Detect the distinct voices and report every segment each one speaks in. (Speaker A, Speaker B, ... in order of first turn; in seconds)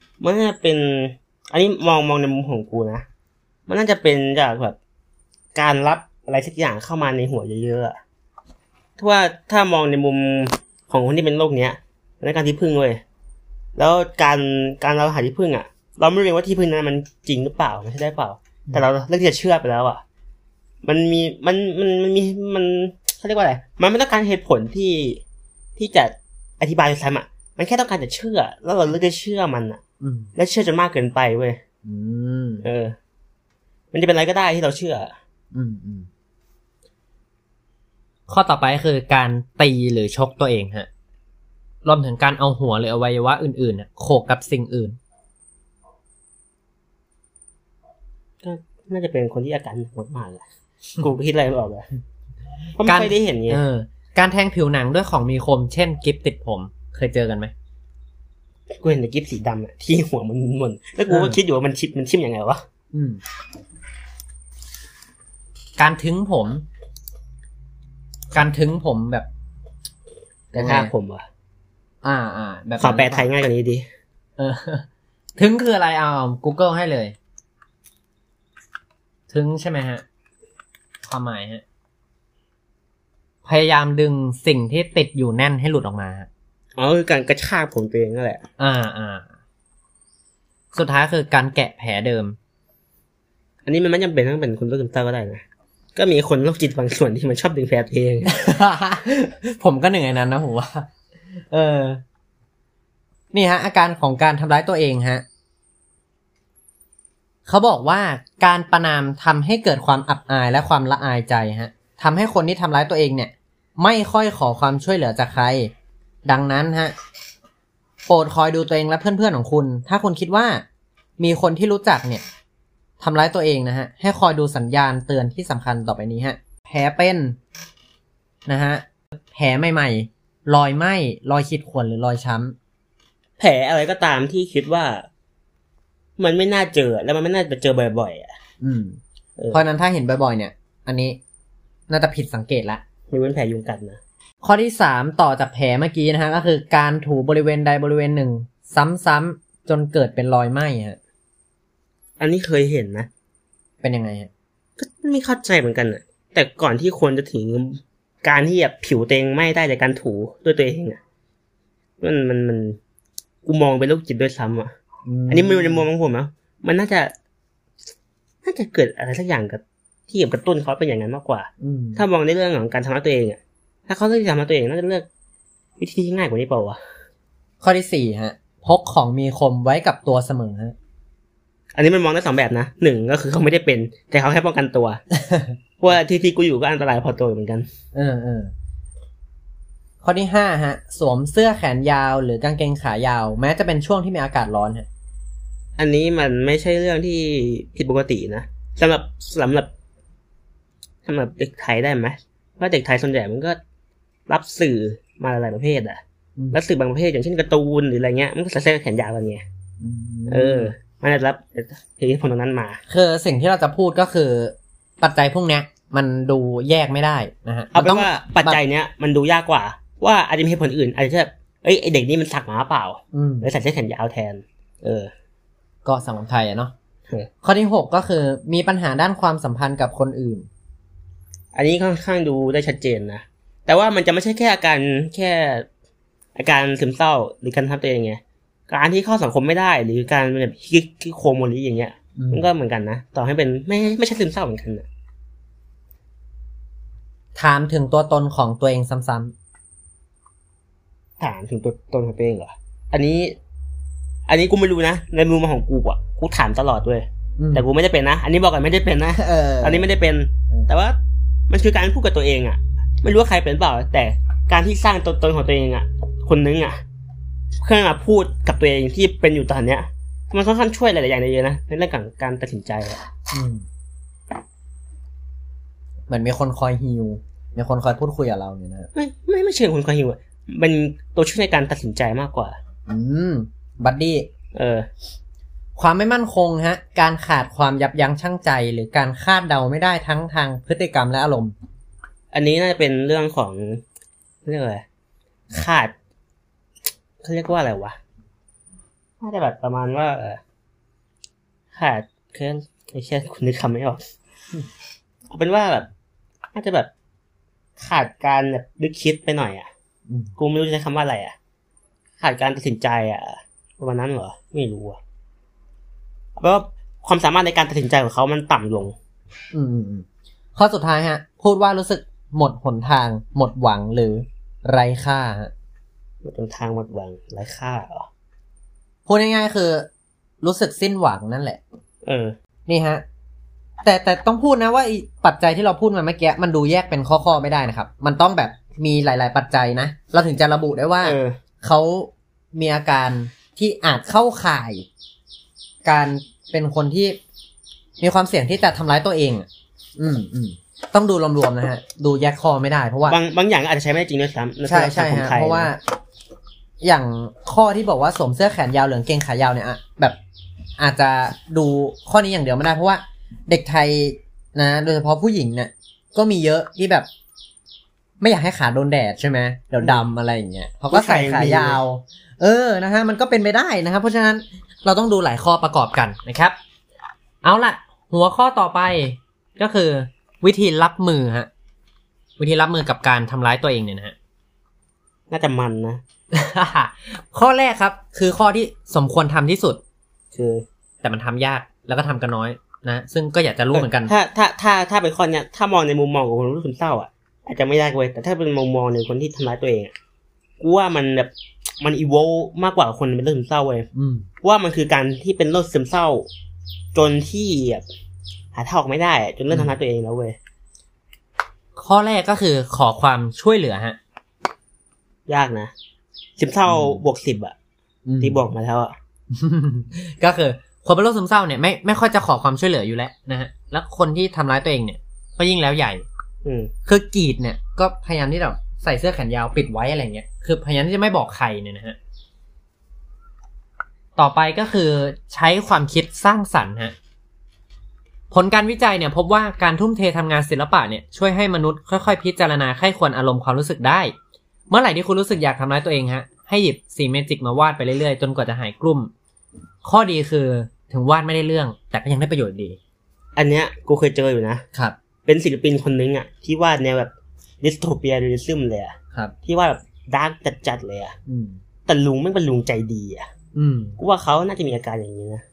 Speaker A: 0.2-3.0, 3.7-4.8, 5.5-8.0, 9.0-13.0, 13.8-20.0, 20.8-25.2, 25.8-29.8, 30.4-31.6, 32.6-33.0, 33.9-35.1, 48.4-50.4, 51.0-51.9, 52.8-53.6, 58.7-62.6, 70.5-71.2, 72.8-73.8, 86.8-88.4, 93.6-95.4, 96.0-98.4, 133.4-135.1, 136.2-138.3, 139.4-139.6, 143.1-144.0, 152.2-153.1, 154.8-161.0, 162.0-162.8, 163.4-164.7, 165.3-167.1, 168.4-175.1, 175.8-176.8, 181.7-185.0, 185.8-187.7, 195.8-199.7, 201.1-203.6, 204.3-206.0, 206.5-209.4, 210.3-212.8, 217.7-225.1, 231.5-235.7, 236.3-244.8, 251.2-253.4, 254.3-261.0, 261.5-266.8, 267.6-273.1, 278.9-282.6, 284.5-284.9, 292.3-293.8, 294.4-294.8, 295.5-295.9, 297.2-298.0, 299.2-300.4, 301.7-304.1, 305.3-305.9, 306.5-306.9, 307.8-309.7, 310.4-311.4, 312.2-315.0, 316.4-318.9, 326.2-328.1, 332.0-332.3, 341.0-341.4, 353.1-355.7, 370.9-371.8, 385.3-386.0, 390.3-390.6, 393.7-399.9, 400.6-403.9, 404.4-406.3, 406.9-407.8, 408.5-410.4, 415.3-415.7, 416.4-417.5, 418.2-418.9, 426.4-426.7, 453.4-454.6, 455.2-457.1, 457.6-461.1, 461.9-463.3, 464.0-465.4
Speaker B: 30.0-30.3, 31.8-32.6, 35.5-36.1, 38.3-40.9, 41.8-45.0, 52.9-57.5, 61.1-61.4, 62.9-63.2, 65.8-66.6, 68.3-69.3, 70.5-70.9, 72.0-73.3, 74.4-74.8, 75.4-77.1, 79.3-80.0, 81.0-81.6, 83.4-86.3, 88.6-89.3, 90.7-92.4, 98.2-100.9, 101.5-102.0, 103.3-105.2, 107.5-115.7, 116.2-116.9, 118.1-120.6, 121.2-122.2, 123.0-127.4, 128.5-132.5, 138.6-139.0, 139.5-141.2, 141.9-142.8, 144.4-151.0, 153.8-154.3, 165.0-165.8, 171.6-172.0, 177.6-180.7, 185.1-185.6, 187.9-188.5, 190.0-194.9, 209.8-210.7, 212.9-218.6, 223.1-223.5, 225.8-226.7, 227.4-230.5, 242.2-242.4, 247.3-249.3, 257.4-257.7, 259.1-259.9, 273.3-273.6, 276.1-278.9, 282.9-284.3, 285.8-291.5, 310.1-310.3, 319.5-325.5, 329.1-329.9, 330.4-331.6, 332.7-333.0, 333.8-344.9, 345.8-347.2, 348.0-353.2, 354.6-355.8, 356.8-360.2, 360.8-367.1, 368.2-376.6, 377.4-381.5, 382.4-384.1, 386.3-389.8, 391.0-394.1, 403.9-404.3, 411.8-414.0, 416.7-417.0, 418.1-418.4, 419.3-426.0, 426.9-432.0, 434.2-436.9, 438.3-444.1, 444.7-449.1, 449.8-452.8, 461.3-461.6, 463.5-464.0